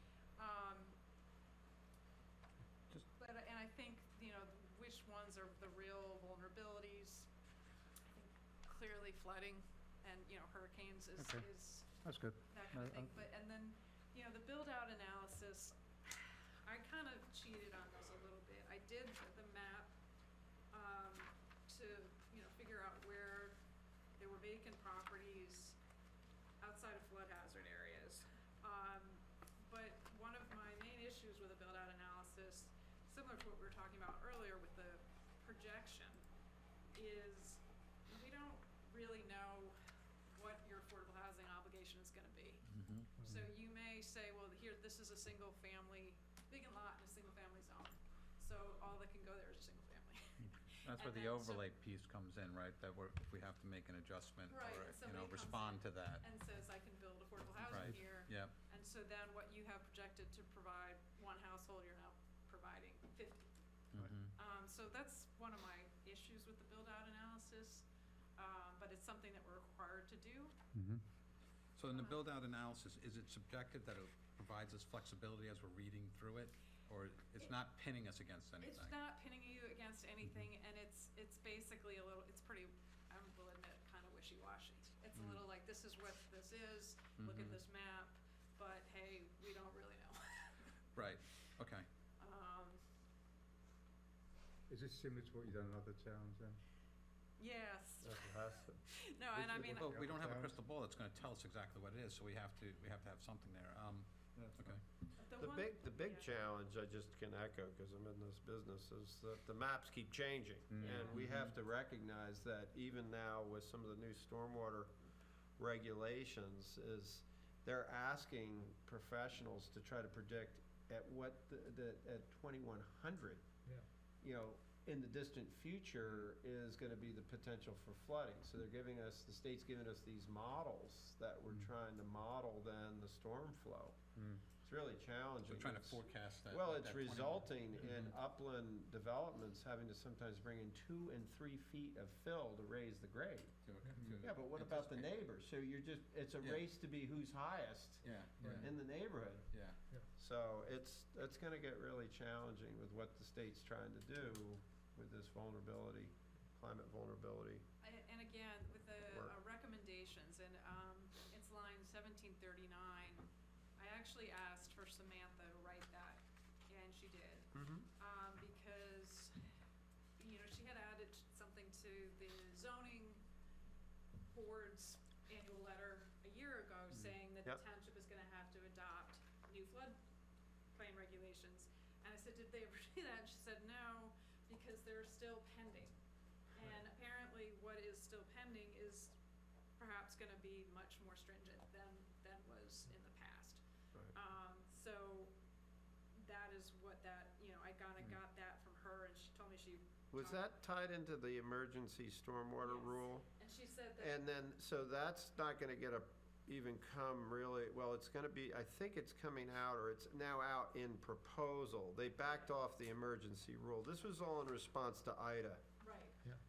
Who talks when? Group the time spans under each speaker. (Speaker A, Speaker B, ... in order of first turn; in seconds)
Speaker A: 0.4-1.0, 3.1-7.3, 8.1-19.9, 20.7-23.6, 24.2-25.8, 26.6-36.2, 36.9-39.8, 40.3-51.7, 54.5-63.5, 64.3-67.9, 68.4-70.5, 71.8-72.2, 78.6-90.8, 92.2-92.8, 97.4-100.1, 105.2-106.4, 110.8-111.3, 157.8-169.3, 170.2-173.2, 174.3-180.0, 180.8-186.0, 186.5-189.2, 189.8-193.6, 194.1-195.3, 196.2-200.6, 202.6-204.2, 212.1-212.7, 215.8-216.2
Speaker B: 11.2-11.5, 12.0-13.2, 43.2-43.5, 70.7-71.0, 94.7-96.6, 99.8-100.5, 104.4-104.8, 110.7-111.1
Speaker C: 42.7-43.1, 50.8-56.2, 57.7-58.5, 63.9-64.3, 71.8-79.0, 85.2-85.4, 87.2-87.6, 91.0-91.9, 99.6-104.8, 111.0-111.5, 135.5-138.2, 143.7-145.2, 148.0-148.7, 149.5-149.8
Speaker D: 98.0-98.8, 99.3-99.8, 105.4-114.9, 115.6-123.4, 124.2-134.0, 134.6-149.5, 150.2-157.6, 159.1-159.3, 167.5-167.9, 200.1-203.3, 204.0-215.6